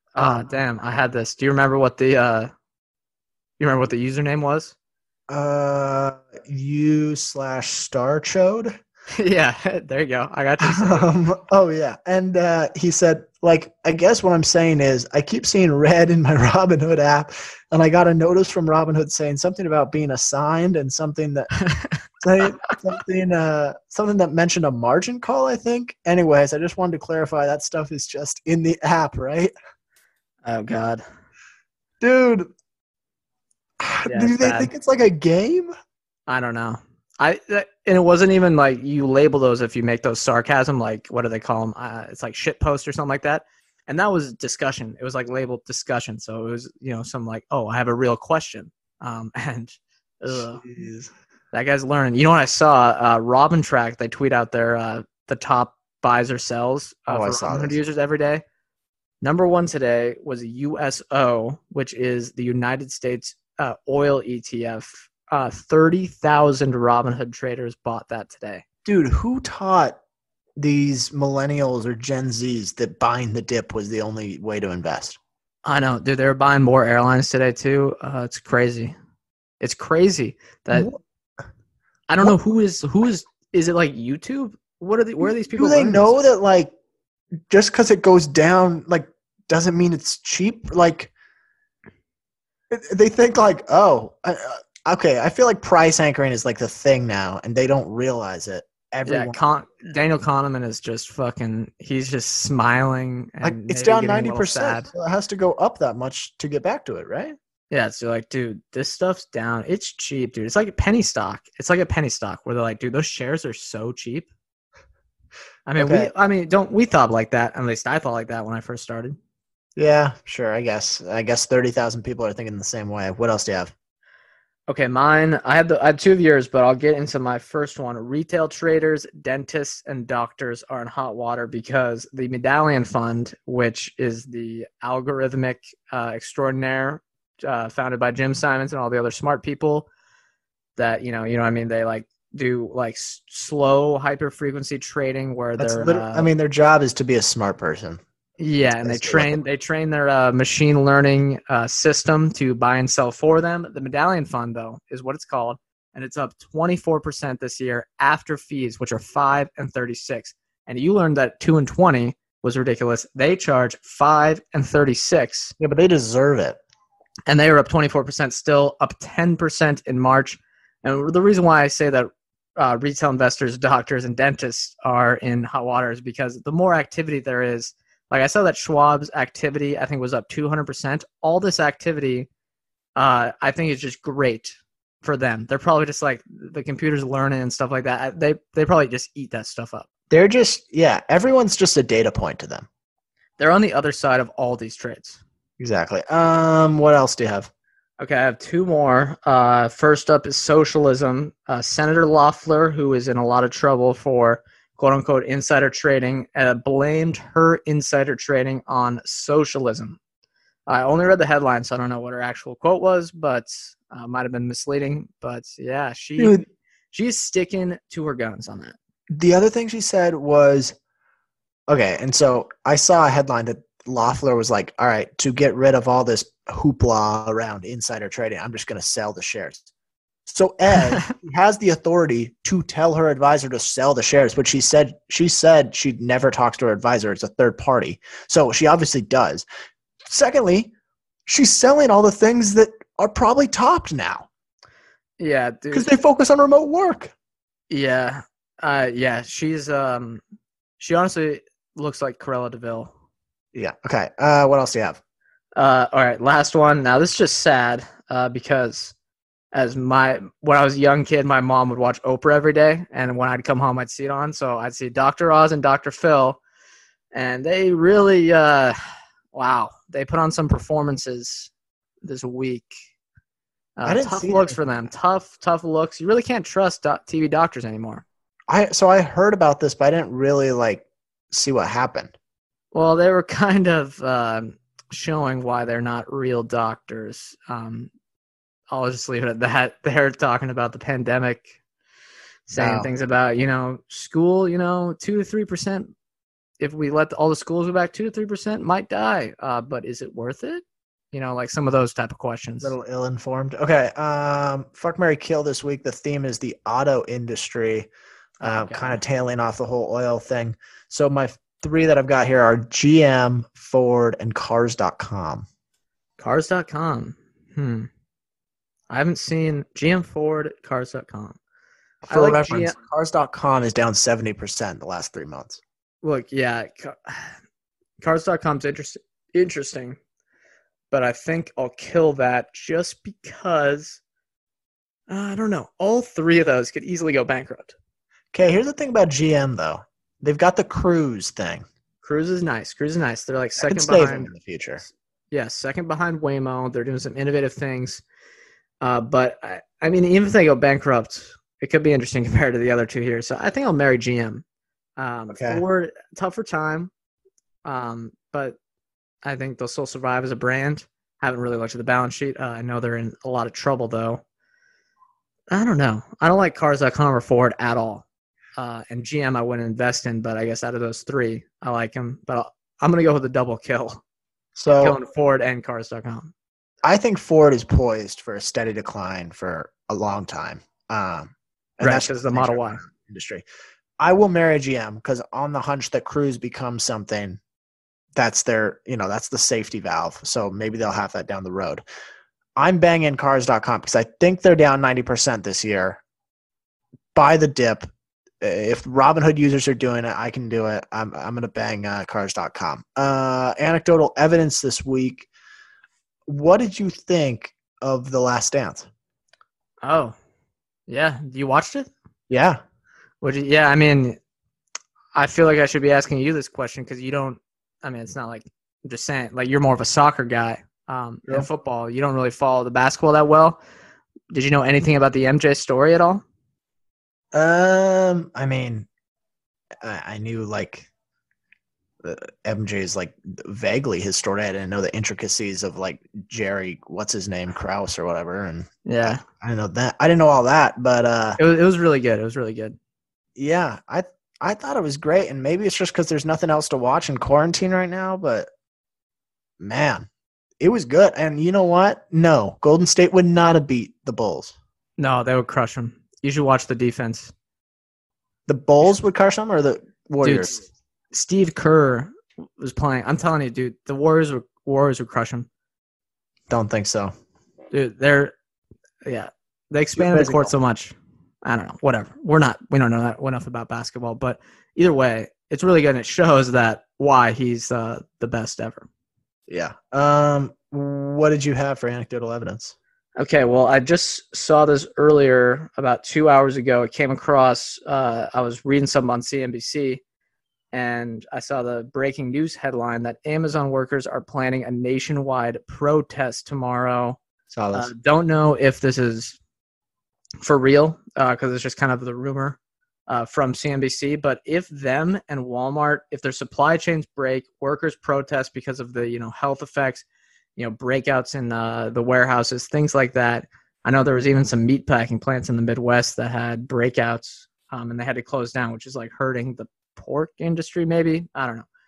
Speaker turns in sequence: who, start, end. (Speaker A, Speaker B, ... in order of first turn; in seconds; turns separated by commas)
Speaker A: 0.2-2.5, Speaker A: 3.6-4.8, Speaker B: 5.3-8.8, Speaker A: 9.2-11.1, Speaker B: 10.6-21.5, Speaker A: 21.7-22.0, Speaker B: 22.2-29.5, Speaker A: 30.4-31.0, Speaker B: 32.0-32.5, Speaker B: 33.8-35.8, Speaker A: 34.1-34.7, Speaker A: 36.3-50.6, Speaker B: 50.3-51.1, Speaker A: 51.5-58.4, Speaker B: 57.1-57.8, Speaker A: 59.2-68.6, Speaker B: 68.8-70.0, Speaker B: 70.6-75.2, Speaker A: 75.7-79.0, Speaker A: 79.6-80.9, Speaker B: 80.7-81.0, Speaker A: 82.1-86.1, Speaker B: 85.5-86.7, Speaker B: 87.5-91.1, Speaker B: 92.7-99.4, Speaker A: 99.1-104.9, Speaker B: 103.4-107.4, Speaker A: 107.7-114.3, Speaker A: 115.7-119.2, Speaker B: 115.8-116.1, Speaker B: 119.8-123.7, Speaker A: 124.7-139.9, Speaker A: 140.8-146.3, Speaker B: 145.6-148.0, Speaker A: 148.4-165.5, Speaker B: 148.8-149.4, Speaker B: 165.6-166.6, Speaker A: 167.3-182.3, Speaker A: 183.0-189.9, Speaker B: 190.1-192.7, Speaker A: 193.4-195.2, Speaker B: 195.6-197.5, Speaker A: 198.0-210.0, Speaker A: 210.7-216.4, Speaker B: 216.2-216.5, Speaker A: 216.9-218.8, Speaker B: 219.1-220.8, Speaker B: 221.7-229.6, Speaker B: 230.3-239.4, Speaker B: 240.1-240.7, Speaker B: 241.3-244.3, Speaker A: 245.2-245.9, Speaker B: 245.7-247.1, Speaker A: 247.7-250.2, Speaker A: 250.8-252.9, Speaker B: 253.5-255.0, Speaker A: 255.6-258.9, Speaker A: 259.5-266.4, Speaker A: 267.1-268.8, Speaker A: 269.3-271.5, Speaker A: 272.0-272.8, Speaker A: 273.8-278.0, Speaker B: 273.9-274.6, Speaker B: 278.5-282.1, Speaker A: 282.7-287.9, Speaker A: 288.7-291.5, Speaker A: 292.5-295.9, Speaker B: 292.6-292.9, Speaker A: 296.6-302.7, Speaker B: 302.6-307.9, Speaker B: 308.4-315.5, Speaker A: 308.4-309.0, Speaker A: 316.2-317.9, Speaker A: 318.9-321.4, Speaker B: 322.0-325.6, Speaker A: 322.1-322.8, Speaker A: 326.0-327.4, Speaker A: 328.0-330.0, Speaker A: 330.9-334.0, Speaker A: 335.1-337.8, Speaker B: 338.3-341.7, Speaker A: 342.0-344.3, Speaker B: 343.6-344.8, Speaker A: 345.3-348.0, Speaker A: 348.8-354.4, Speaker A: 355.0-356.9, Speaker B: 355.3-355.6, Speaker A: 357.6-358.6, Speaker A: 359.2-364.2, Speaker A: 365.5-368.1, Speaker A: 368.6-374.0, Speaker B: 374.6-375.0, Speaker A: 374.8-376.3, Speaker B: 376.8-383.4, Speaker A: 381.8-382.8, Speaker B: 384.0-387.4, Speaker B: 388.2-391.8, Speaker B: 392.6-396.0, Speaker B: 397.1-397.9, Speaker B: 398.4-405.3, Speaker B: 406.3-408.9, Speaker A: 409.8-410.2, Speaker A: 410.9-411.9, Speaker B: 412.3-412.6, Speaker A: 413.2-414.2, Speaker A: 415.1-423.6, Speaker A: 424.3-426.2, Speaker B: 427.3-428.9, Speaker B: 429.8-430.9, Speaker B: 432.0-441.4, Speaker A: 438.9-439.2, Speaker A: 441.4-442.8, Speaker B: 443.4-448.5, Speaker B: 449.6-450.1, Speaker B: 450.6-454.6, Speaker A: 455.0-457.3, Speaker B: 458.5-460.6, Speaker A: 460.2-460.5, Speaker A: 461.1-465.5, Speaker B: 466.5-467.1, Speaker A: 467.7-468.3, Speaker A: 469.0-478.9, Speaker B: 470.0-470.5, Speaker B: 479.5-482.8, Speaker A: 483.2-490.0, Speaker A: 490.7-497.2, Speaker B: 497.5-497.9, Speaker A: 497.7-499.4, Speaker A: 500.4-510.1, Speaker A: 510.6-521.7